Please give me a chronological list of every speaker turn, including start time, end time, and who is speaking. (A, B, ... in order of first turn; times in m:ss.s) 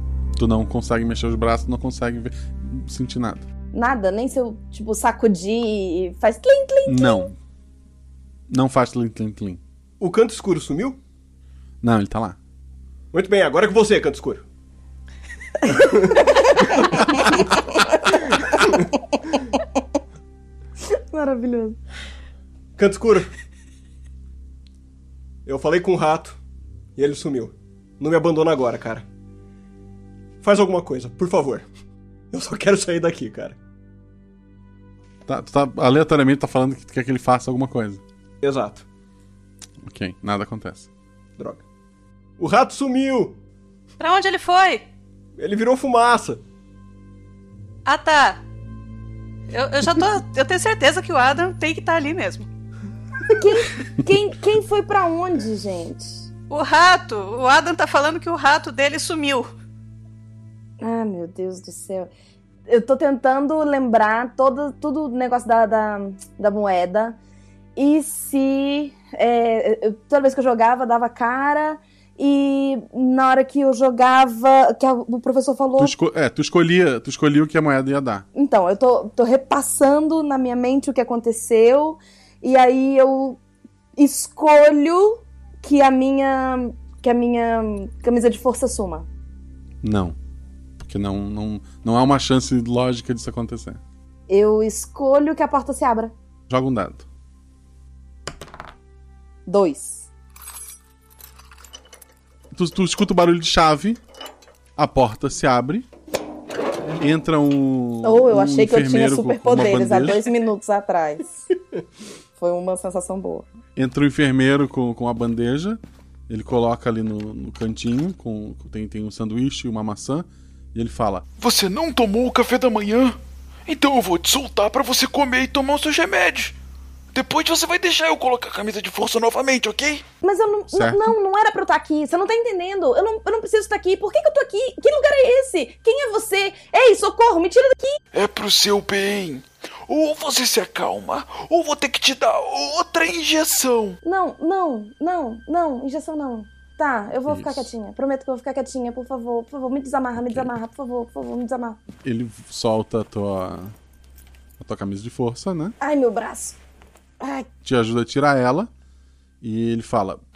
0:00.4-0:03.5 A
0:03.7-0:07.3 B
0:06.9-0:07.4 A
0:08.5-0:09.6 A
0:10.0-0:11.0 C
0:11.8-0:12.4 A
0:13.1-0:14.4 C
0:15.7-0:16.2 C
0:21.1-0:21.8 B
0:22.8-0:23.3 C
0:25.5-0:26.4 C
0:27.0-0:29.1 C
0:30.4-0:31.7 C
0:32.3-0:33.6 C
0:35.3-0:38.0 A
0:38.4-0:38.8 C
0:39.8-0:40.9 A
0:41.4-0:41.6 C
0:42.4-0:43.4 C
0:44.0-0:44.8 D
0:45.4-0:46.4 C
0:47.9-0:48.4 D
0:49.5-0:52.5 D
0:53.4-0:56.1 B
0:56.5-0:59.5 D
1:00.8-1:02.1 B
1:02.7-1:07.2 B
1:07.8-1:15.9 B
1:15.8-1:18.3 A
1:18.4-1:23.4 B
1:24.0-1:29.1 B
1:29.8-1:30.2 A
1:30.8-1:33.8 A
1:34.3-1:36.1 B
1:36.5-1:37.0 A
1:39.5-1:40.0 B
1:42.5-1:44.0 A
1:44.8-1:45.9 A
1:47.0-1:50.3 A
1:48.0-1:51.3 B
1:52.4-1:53.5 B
1:53.8-2:01.2 A
2:01.4-2:06.6 E
2:07.1-2:10.0 E
2:10.2-2:18.0 B
2:10.7-2:11.1 A
2:18.1-2:24.0 E
2:24.0-2:31.8 B
2:27.3-2:27.7 A
2:30.2-2:30.5 A
2:32.0-2:33.7 A
2:34.6-2:35.8 A
2:35.8-2:36.6 B
2:37.2-2:37.5 B
2:37.6-2:38.7 A
2:39.4-2:40.2 A